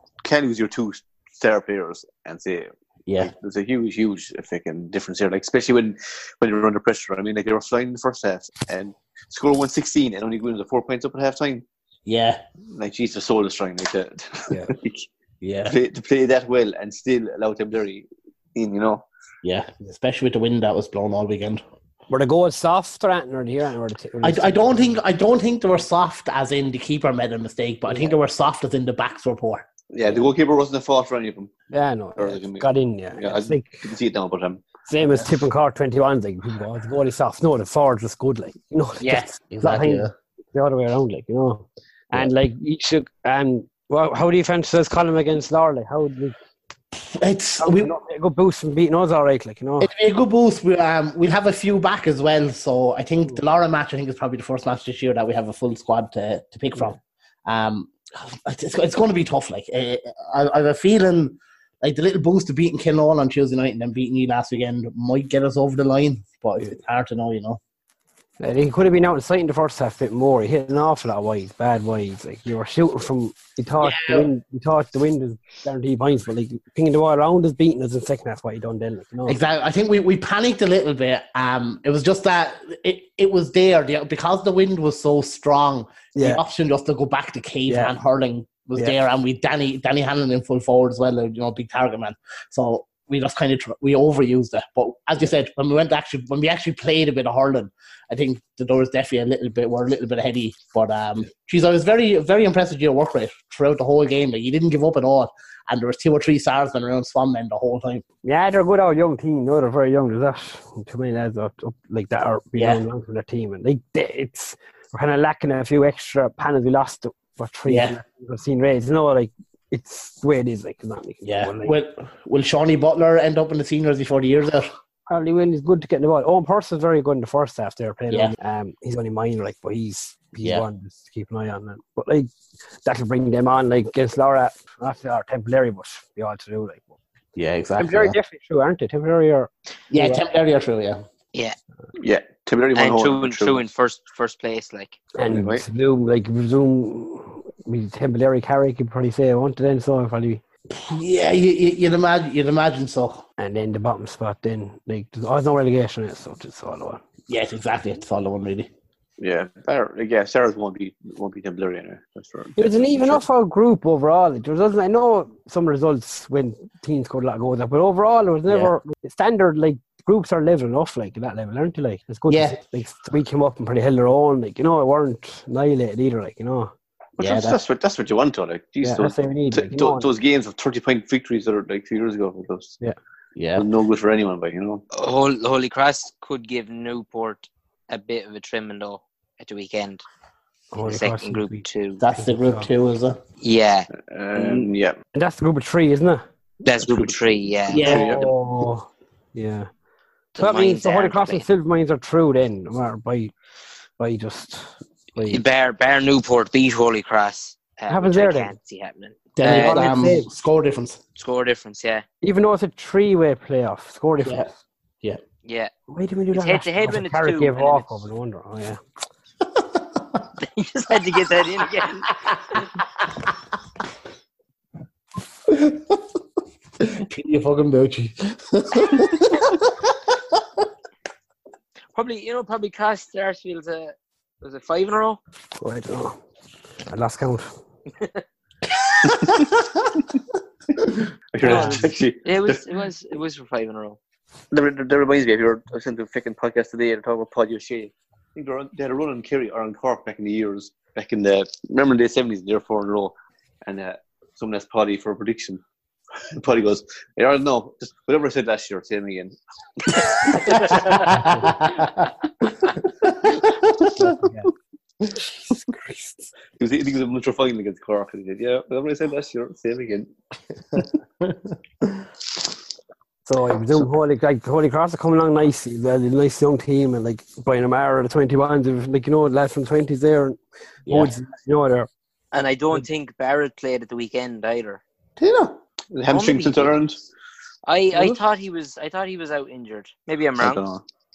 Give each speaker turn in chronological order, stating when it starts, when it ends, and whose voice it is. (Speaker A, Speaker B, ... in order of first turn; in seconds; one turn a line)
Speaker A: 0.2-11.6
Speaker B: 3.1-3.3
Speaker B: 12.1-12.4
Speaker A: 12.7-15.1
Speaker B: 15.4-15.7
Speaker A: 15.7-19.1
Speaker B: 19.4-21.6
Speaker C: 22.1-25.0
Speaker B: 24.2-29.7
Speaker C: 27.9-28.1
Speaker A: 29.9-31.5
Speaker C: 31.7-33.9
Speaker A: 32.2-34.7
Speaker C: 34.9-46.4
Speaker B: 39.1-40.1
Speaker B: 46.9-47.9
Speaker C: 47.6-49.9
Speaker B: 49.8-67.6
Speaker C: 68.4-79.4
Speaker B: 73.8-74.3
Speaker B: 79.3-108.0
Speaker C: 86.2-86.4
Speaker C: 87.7-87.9
Speaker C: 108.2-121.7
Speaker B: 112.5-112.8
Speaker B: 117.7-118.0
Speaker B: 121.2-124.7
Speaker C: 125.1-132.3
Speaker C: 132.8-137.0
Speaker B: 137.3-138.2
Speaker C: 137.8-140.2
Speaker B: 139.9-141.0
Speaker A: 142.0-143.6
Speaker D: 142.7-145.0
Speaker C: 145.2-150.4
Speaker A: 145.2-145.6
Speaker B: 150.7-153.2
Speaker C: 153.4-157.0
Speaker B: 157.3-158.7
Speaker A: 159.2-163.2
Speaker C: 162.6-176.7
Speaker B: 172.3-172.6
Speaker A: 177.2-182.8
Speaker B: 177.2-177.6
Speaker C: 178.8-180.1
Speaker B: 183.3-183.7
Speaker A: 183.5-184.8
Speaker D: 184.9-190.0
Speaker C: 190.7-191.6
Speaker D: 190.8-192.0
Speaker B: 192.0-193.2
Speaker C: 192.2-192.7
Speaker D: 193.4-194.7
Speaker A: 194.0-194.9
Speaker C: 195.1-196.2
Speaker D: 196.6-198.0
Speaker A: 196.7-198.3
Speaker B: 197.7-198.1
Speaker C: 197.8-199.7
Speaker D: 200.3-201.4
Speaker C: 200.3-203.3
Speaker C: 204.0-205.4
Speaker D: 205.3-209.9
Speaker C: 207.9-208.5
Speaker B: 209.3-211.0
Speaker C: 209.4-210.3
Speaker D: 211.2-212.0
Speaker C: 212.2-214.5
Speaker B: 214.2-214.5
Speaker D: 215.4-215.7
Speaker C: 215.9-218.8
Speaker D: 216.3-217.8
Speaker D: 220.4-222.1
Speaker B: 225.5-226.0
Speaker B: 226.8-229.9
Speaker D: 231.9-235.2
Speaker C: 235.6-236.2
Speaker C: 236.8-237.5
Speaker A: 241.3-242.6
Speaker C: 241.4-241.8
Speaker D: 241.4-244.0
Speaker A: 244.5-255.6
Speaker A: 256.3-260.9
Speaker D: 260.6-260.9
Speaker B: 261.1-262.0
Speaker B: 263.1-263.9
Speaker C: 263.9-264.5
Speaker C: 265.5-266.3
Speaker A: 266.6-270.1
Speaker B: 270.8-271.4
Speaker C: 273.2-281.9
Speaker B: 280.9-281.1
Speaker D: 282.3-284.8
Speaker B: 285.2-285.6
Speaker A: 285.9-287.0
Speaker D: 286.1-286.8
Speaker D: 287.7-290.6
Speaker A: 290.4-290.8